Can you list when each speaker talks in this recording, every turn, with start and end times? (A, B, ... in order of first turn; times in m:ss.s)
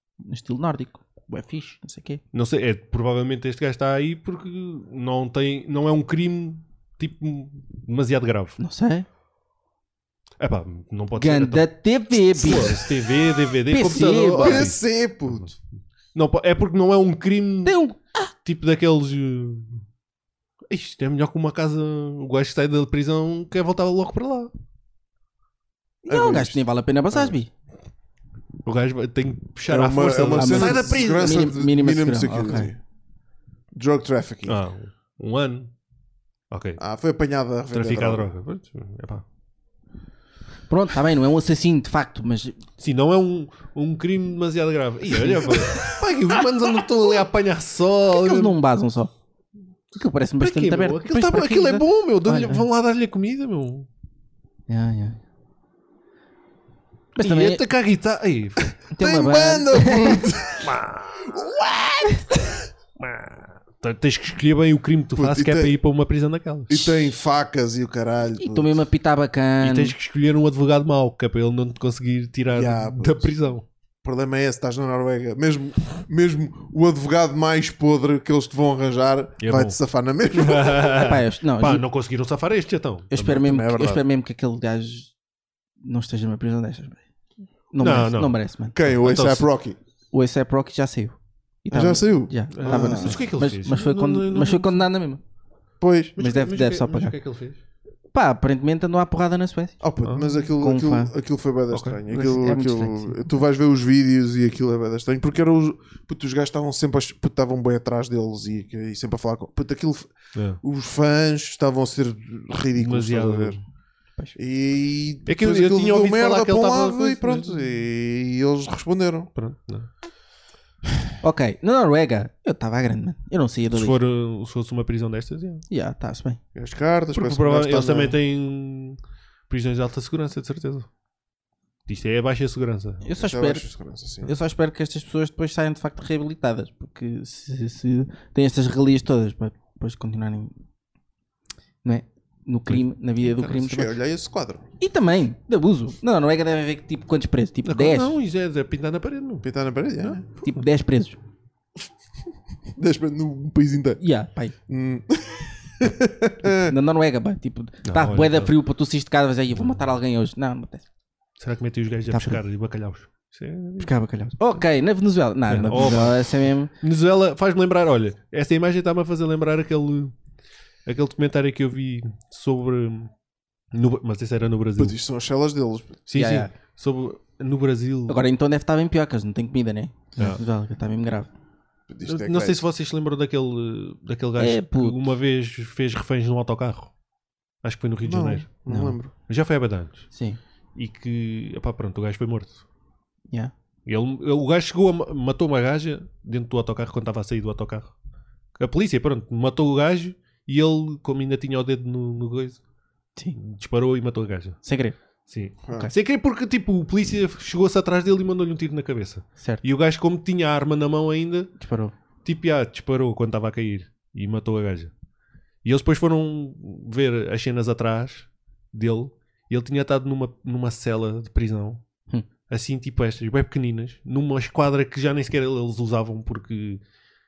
0:00.2-0:02.2 A
0:02.3-0:08.6 B
0:08.6-0:09.1 A
0:10.4-0:11.7 B
0:11.2-0:12.8 A
0:12.3-0:15.5 B
0:13.7-0:14.7 A
0:14.1-0:15.5 C
0:16.2-0:17.8 B
0:17.6-0:18.3 A
0:18.4-0:19.8 B
0:20.7-0:24.5 B
0:26.0-0:27.5 A
0:26.1-0:26.6 C
0:28.6-0:31.4 B
0:29.7-0:32.8 C
0:30.4-0:32.7 A
0:33.7-0:34.6 C
0:34.5-0:35.7 B
0:36.5-0:36.8 B
0:36.8-0:38.3 C
0:37.7-0:39.2 B
0:40.7-0:42.6 A
0:42.8-0:48.6 B
0:45.2-0:45.5 A
0:48.1-0:49.1 A
0:49.9-0:52.7 A
0:50.4-0:53.9 B
0:54.7-0:55.2 A
0:57.2-0:57.6 A
0:57.2-0:58.7 B
0:58.9-1:00.2 A
0:59.0-1:02.5 C
1:00.6-1:01.5 B
1:03.0-1:06.9 B
1:05.2-1:05.7 C
1:06.7-1:08.8 C
1:08.4-1:09.9 A
1:09.6-1:13.7 B
1:12.5-1:13.3 C
1:14.0-1:21.0 C
1:19.4-1:19.8 B
1:20.3-1:23.6 B
1:21.0-1:21.8 A
1:23.1-1:25.1 A
1:23.4-1:24.0 C
1:25.8-1:27.0 A
1:27.7-1:28.8 A
1:27.8-1:29.5 B
1:28.7-1:29.8 C
1:30.1-1:35.2 A
1:31.7-1:33.2 C
1:32.6-1:34.9 B
1:35.8-1:36.2 C
1:36.2-1:37.6 B
1:36.2-1:37.1 A
1:38.1-1:39.8 A
1:39.8-1:53.6 C
1:40.0-1:40.4 B
1:40.6-1:41.1 A
1:41.7-1:42.0 B
1:42.1-1:43.2 A
1:50.4-1:50.6 B
1:52.8-1:53.6 B
1:54.4-1:59.3 C
1:55.3-1:57.7 B
1:59.4-1:59.9 B
2:01.2-2:04.0 A
2:03.7-2:05.6 B
2:05.7-2:06.4 A
2:06.6-2:08.2 C
2:07.2-2:10.9 B
2:11.9-2:13.0 B
2:13.0-2:13.7 A
2:13.2-2:14.4 C
2:14.2-2:20.5 A
2:21.8-2:23.9 A
2:22.7-2:23.6 B
2:23.5-2:24.7 C
2:24.8-2:28.1 A
2:27.6-2:29.5 B
2:29.4-2:30.2 C
2:30.3-2:30.6 B
2:30.4-2:31.2 A
2:32.8-2:34.0 C
2:34.0-2:34.5 A
2:34.7-2:36.8 C
2:36.4-2:40.8 A
2:37.8-2:38.6 B
2:41.4-2:43.9 B
2:42.1-2:42.4 A
2:43.8-2:46.7 A
2:45.5-2:50.1 B
2:50.9-2:53.1 B
2:53.7-2:55.0 B
2:54.8-2:56.0 C
2:56.1-2:58.2 B
2:56.1-2:56.5 A
2:58.1-3:01.3 A
3:01.9-3:02.6 C
3:02.0-3:06.9 B
3:04.4-3:05.0 A
3:07.6-3:08.6 B
3:08.0-3:09.1 C
3:08.7-3:09.0 A
3:09.2-3:10.1 B
3:10.1-3:10.4 A
3:10.8-3:12.6 B
3:13.9-3:17.9 B
3:18.6-3:22.6 B
3:23.4-3:24.6 B
3:24.6-3:25.0 A
3:25.3-3:31.5 B
3:25.7-3:25.9 C
3:31.6-3:31.9 A
3:32.2-3:34.9 B
3:35.6-3:41.8 B
3:42.5-3:46.8 B